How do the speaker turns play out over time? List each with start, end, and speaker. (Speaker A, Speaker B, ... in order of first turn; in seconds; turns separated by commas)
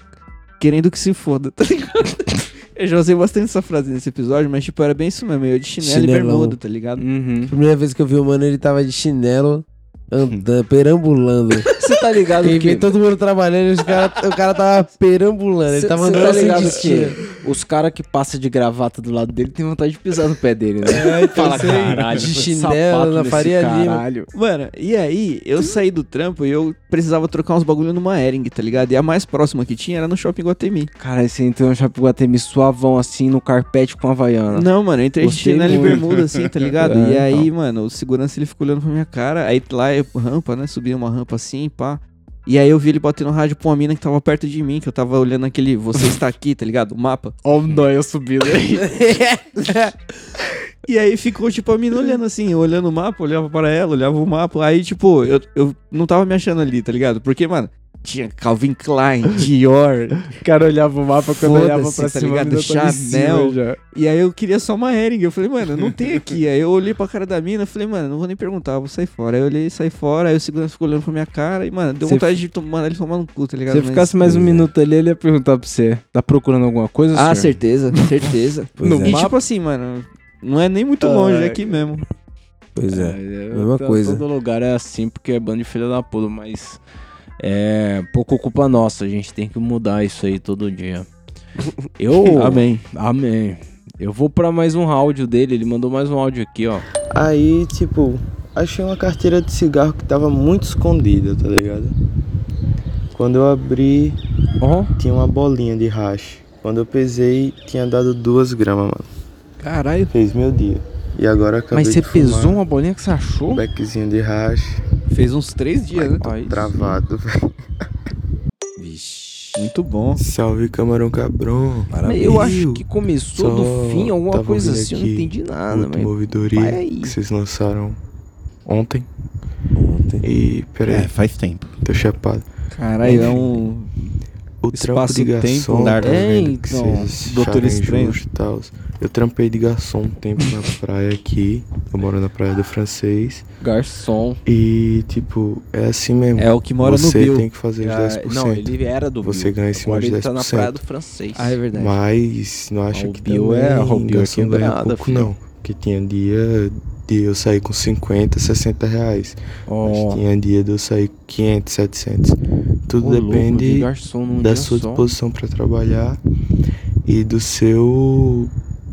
Speaker A: 0.6-7.0, Speaker B: 5.8-6.6, Speaker C: 7.0-7.5, Speaker B: 7.5-11.7, Speaker A: 11.8-12.2, Speaker C: 11.8-12.9, Speaker B: 12.4-17.2, Speaker C: 15.7-24.3, Speaker A: 16.1-16.5, Speaker B: 20.9-24.1, Speaker A: 24.3-30.9, Speaker C: 31.0-34.7, Speaker A: 34.5-47.4, Speaker C: 35.2-36.0, Speaker D: 35.8-36.4, Speaker C: 36.8-37.5, Speaker C: 47.4-49.4, Speaker A: 49.6-49.9, Speaker A: 50.9-60.2, Speaker C: 60.4-63.8, Speaker A: 61.4-74.4, Speaker C: 72.0-72.4, Speaker C: 73.7-77.6, Speaker A: 77.1-82.0, Speaker B: 78.8-79.2, Speaker C: 78.8-79.4, Speaker C: 81.0-81.8, Speaker B: 82.8-84.2, Speaker C: 82.9-86.8, Speaker C: 87.4-91.1, Speaker C: 92.0-96.8, Speaker A: 92.3-92.8, Speaker E: 97.1-102.0, Speaker E: 103.1-104.2, Speaker C: 104.6-104.9, Speaker E: 105.0-109.1, Speaker A: 109.6-110.1, Speaker E: 110.1-112.6, Speaker C: 111.7-113.6, Speaker E: 113.5-114.8, Speaker A: 115.1-116.3, Speaker C: 116.2-117.0, Speaker E: 116.4-117.3, Speaker C: 118.8-119.5, Speaker B: 118.8-119.3, Speaker A: 119.5-120.2, Speaker E: 120.2-122.8, Speaker B: 121.9-122.6, Speaker C: 122.0-127.2, Speaker E: 123.3-128.0, Speaker E: 128.7-129.1, Speaker B: 129.8-130.2, Speaker E: 130.2-131.1, Speaker D: 130.9-131.8, Speaker E: 131.8-132.4, Speaker A: 132.7-133.9, Speaker C: 133.1-133.4, Speaker E: 134.6-143.5, Speaker A: 134.7-136.0, Speaker D: 135.7-136.2, Speaker C: 136.0-137.2, Speaker A: 137.2-138.2, Speaker C: 143.6-144.4, Speaker E: 144.5-150.8, Speaker A: 146.4-147.5, Speaker C: 147.8-151.6, Speaker A: 151.3-152.0, Speaker E: 151.7-166.2, Speaker C: 152.9-155.3, Speaker C: 159.7-160.2, Speaker C: 163.0-165.1, Speaker E: 167.1-168.5